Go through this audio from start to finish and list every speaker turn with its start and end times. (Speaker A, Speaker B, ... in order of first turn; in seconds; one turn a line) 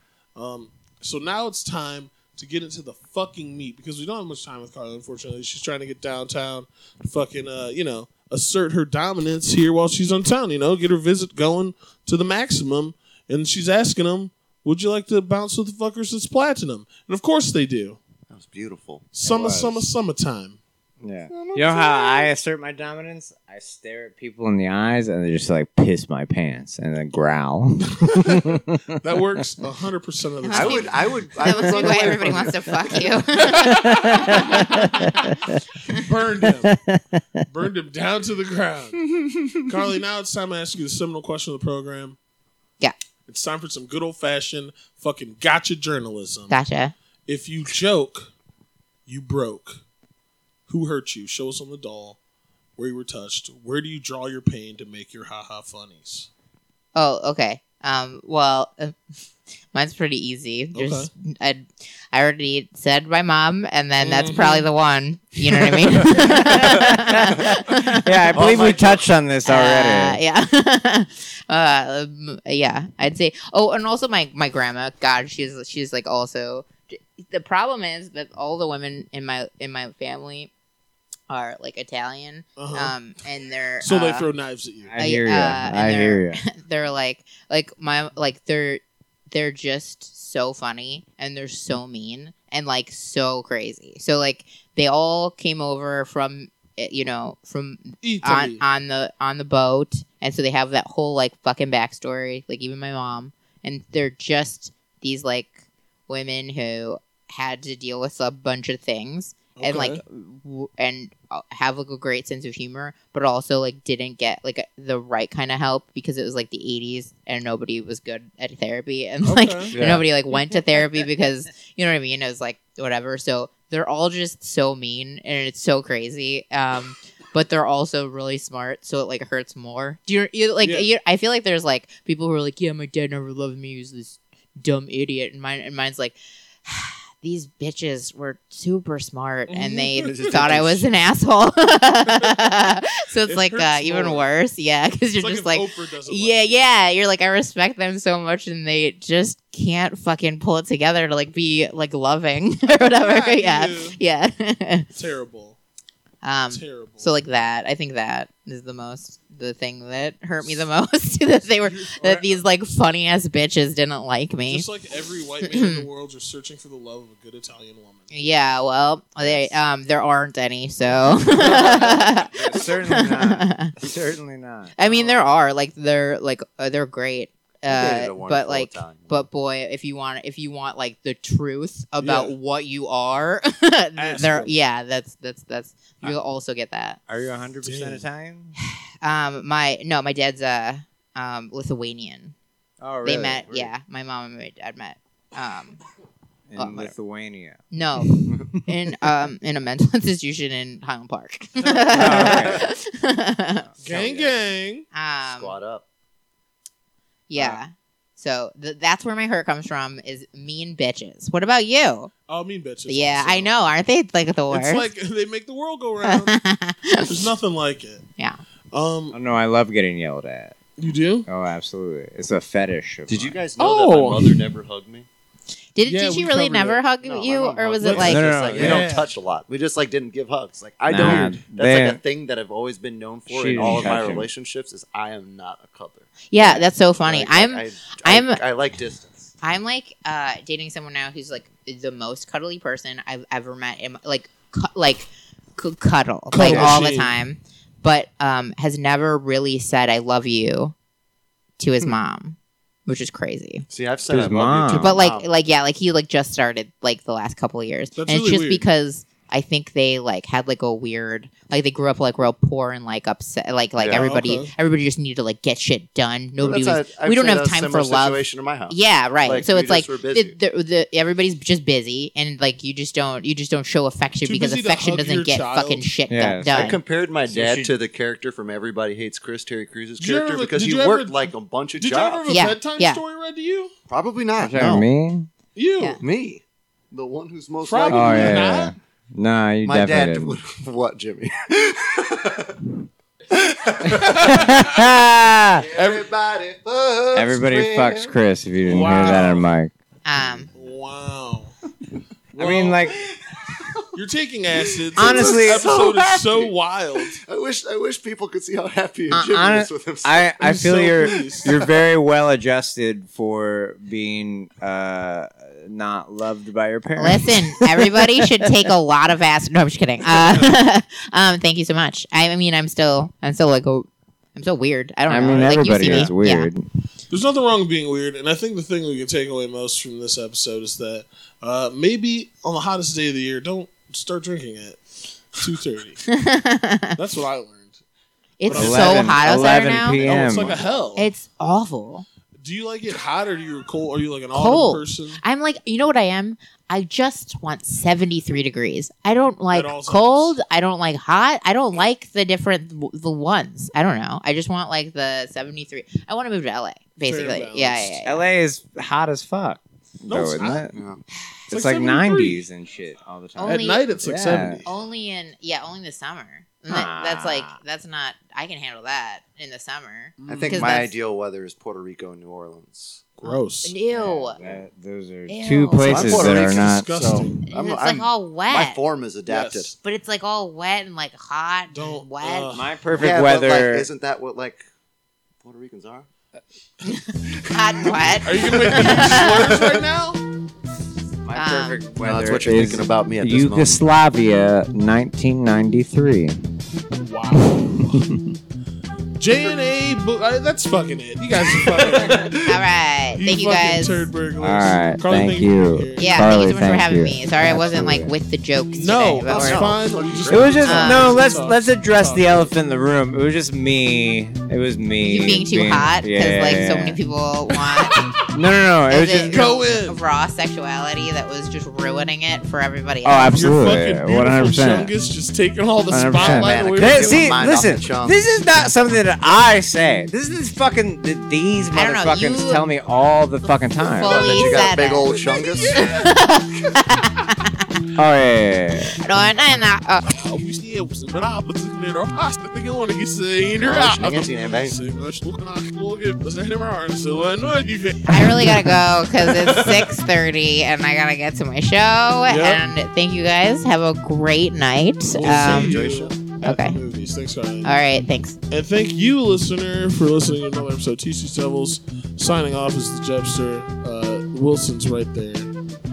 Speaker A: 0.4-18.0
Speaker B: 18.3-19.1
Speaker A: 19.1-20.6
Speaker C: 19.2-19.9
Speaker C: 21.0-28.7
Speaker B: 21.3-22.3
Speaker A: 28.0-31.1
Speaker D: 30.4-35.1
Speaker B: 30.5-32.8
Speaker A: 33.6-35.0
Speaker C: 33.7-35.6
Speaker A: 35.9-36.8
Speaker C: 36.6-37.5
Speaker A: 37.5-39.1
Speaker A: 39.7-42.2
Speaker A: 43.3-46.6
Speaker D: 46.5-46.9
Speaker A: 47.3-48.3
Speaker A: 49.1-49.8
Speaker A: 50.7-52.2
Speaker A: 52.8-56.3
Speaker D: 57.0-59.0
Speaker D: 59.7-68.4
Speaker A: 60.7-61.1
Speaker A: 64.0-64.7
Speaker C: 66.1-70.2
Speaker B: 66.5-67.6
Speaker B: 68.3-69.1
Speaker D: 69.5-80.5
Speaker D: 81.3-84.3
Speaker A: 82.6-83.0
Speaker A: 83.8-85.0
Speaker C: 84.8-86.4
Speaker D: 85.0-154.9
Speaker A: 98.0-98.6
Speaker A: 109.6-110.0
Speaker A: 119.2-119.8
Speaker C: 119.7-120.1
Speaker A: 130.6-130.9
Speaker A: 139.5-140.5
Speaker B: 140.0-140.9
Speaker A: 142.1-142.4
Speaker A: 143.3-144.3
Speaker A: 145.2-146.6
Speaker A: 152.7-154.0
Speaker A: 154.9-155.6
Speaker D: 156.2-164.7
Speaker A: 156.5-157.1
Speaker A: 161.6-162.4
Speaker A: 164.5-168.1
Speaker D: 165.5-165.9
Speaker D: 168.1-173.7
Speaker A: 169.2-169.6
Speaker C: 171.3-174.8
Speaker B: 171.3-172.6
Speaker D: 174.8-187.0
Speaker B: 177.7-179.3
Speaker A: 182.0-182.3
Speaker A: 184.0-184.5
Speaker C: 187.1-188.6
Speaker A: 187.6-188.1
Speaker D: 189.0-192.3
Speaker C: 192.8-193.7
Speaker D: 193.0-195.8
Speaker C: 196.5-198.6
Speaker D: 196.6-196.9
Speaker D: 197.7-203.7
Speaker A: 201.6-202.5
Speaker C: 201.9-202.7
Speaker B: 203.8-204.3
Speaker A: 203.8-204.9
Speaker D: 204.9-205.6
Speaker B: 205.3-205.8
Speaker D: 207.3-212.1
Speaker A: 212.3-213.5
Speaker D: 212.9-214.9
Speaker A: 214.5-216.4
Speaker D: 216.1-217.3
Speaker A: 217.1-218.1
Speaker A: 218.7-219.2
Speaker C: 219.1-220.6
Speaker A: 220.8-221.3
Speaker C: 221.2-223.4
Speaker B: 223.1-225.1
Speaker A: 223.6-224.4
Speaker D: 225.8-228.8
Speaker A: 225.9-226.8
Speaker B: 227.0-239.3
Speaker A: 227.8-229.1
Speaker C: 228.0-228.9
Speaker C: 230.9-232.0
Speaker C: 233.3-234.3
Speaker D: 236.3-238.4
Speaker D: 239.4-250.7
Speaker A: 246.3-247.1
Speaker C: 246.4-246.9
Speaker D: 251.6-253.7
Speaker B: 253.7-255.3
Speaker C: 254.1-255.1
Speaker D: 254.8-276.8
Speaker A: 258.0-258.7
Speaker B: 263.8-264.0
Speaker A: 263.9-264.5
Speaker B: 266.4-270.4
Speaker A: 274.2-275.9
Speaker C: 276.1-277.7
Speaker B: 276.5-282.3
Speaker A: 280.0-283.7
Speaker D: 282.3-283.0
Speaker B: 283.9-284.9
Speaker C: 284.4-285.3
Speaker A: 285.6-286.0
Speaker B: 286.0-288.6
Speaker A: 287.6-288.8
Speaker C: 287.9-290.4
Speaker B: 289.6-292.7
Speaker B: 293.3-294.5
Speaker A: 293.9-294.6
Speaker C: 294.3-295.7
Speaker B: 295.6-298.1
Speaker A: 295.8-296.1
Speaker C: 297.1-299.7
Speaker A: 298.7-299.4
Speaker D: 300.1-300.5
Speaker A: 300.6-301.6
Speaker A: 302.3-302.9
Speaker C: 302.4-303.0
Speaker A: 303.9-307.2
Speaker B: 304.6-306.5
Speaker C: 304.9-305.9
Speaker B: 307.2-311.7
Speaker C: 309.1-318.0
Speaker A: 310.4-311.6
Speaker D: 317.0-326.5
Speaker A: 320.1-320.5
Speaker C: 325.1-326.7
Speaker A: 325.2-326.1
Speaker A: 327.1-336.1
Speaker D: 336.1-337.0
Speaker A: 336.9-337.8
Speaker D: 338.4-340.2
Speaker A: 338.5-341.1
Speaker C: 338.5-340.6
Speaker D: 340.9-342.1
Speaker A: 342.4-345.2
Speaker D: 344.3-358.2
Speaker A: 349.5-350.4
Speaker A: 357.1-357.9
Speaker C: 358.1-360.8
Speaker A: 360.1-360.7
Speaker B: 360.7-361.0
Speaker C: 361.5-364.6
Speaker A: 361.5-362.4
Speaker D: 363.4-363.9
Speaker A: 363.4-364.8
Speaker D: 364.6-370.9
Speaker C: 366.7-367.6
Speaker A: 370.2-370.7
Speaker B: 370.3-373.1
Speaker A: 373.2-373.7
Speaker D: 373.2-374.4
Speaker C: 373.9-376.9
Speaker D: 375.3-376.2
Speaker B: 375.9-379.8
Speaker A: 376.1-377.4
Speaker D: 377.5-378.8
Speaker A: 379.3-379.7
Speaker D: 379.8-382.5
Speaker A: 381.7-382.7
Speaker C: 382.5-383.9
Speaker B: 382.9-384.7
Speaker B: 385.4-386.1
Speaker D: 386.9-389.5
Speaker B: 387.3-389.8
Speaker A: 388.2-390.2
Speaker C: 391.2-396.4
Speaker D: 391.4-391.8
Speaker B: 392.0-393.8
Speaker A: 397.0-398.0
Speaker C: 397.8-398.3
Speaker A: 399.2-402.4
Speaker B: 401.8-402.2
Speaker D: 402.4-404.1
Speaker A: 403.1-406.4
Speaker C: 404.4-408.1
Speaker D: 406.0-409.7
Speaker A: 408.7-412.5
Speaker B: 409.3-410.9
Speaker C: 410.3-417.0
Speaker D: 410.6-411.1
Speaker D: 415.0-418.0
Speaker C: 418.3-419.4
Speaker D: 418.9-423.4
Speaker A: 419.3-420.0
Speaker C: 423.0-424.9
Speaker A: 423.3-427.2
Speaker C: 425.9-434.4
Speaker B: 426.2-428.2
Speaker D: 431.7-432.7
Speaker D: 433.9-437.7
Speaker B: 434.1-435.8
Speaker A: 435.3-436.1
Speaker C: 437.9-439.0
Speaker D: 439.0-440.1
Speaker A: 440.1-449.9
Speaker B: 443.5-444.8
Speaker D: 448.1-455.8
Speaker A: 452.3-452.6
Speaker A: 455.1-457.7
Speaker B: 455.2-456.2
Speaker D: 456.4-456.8
Speaker D: 457.6-458.4
Speaker A: 458.5-465.5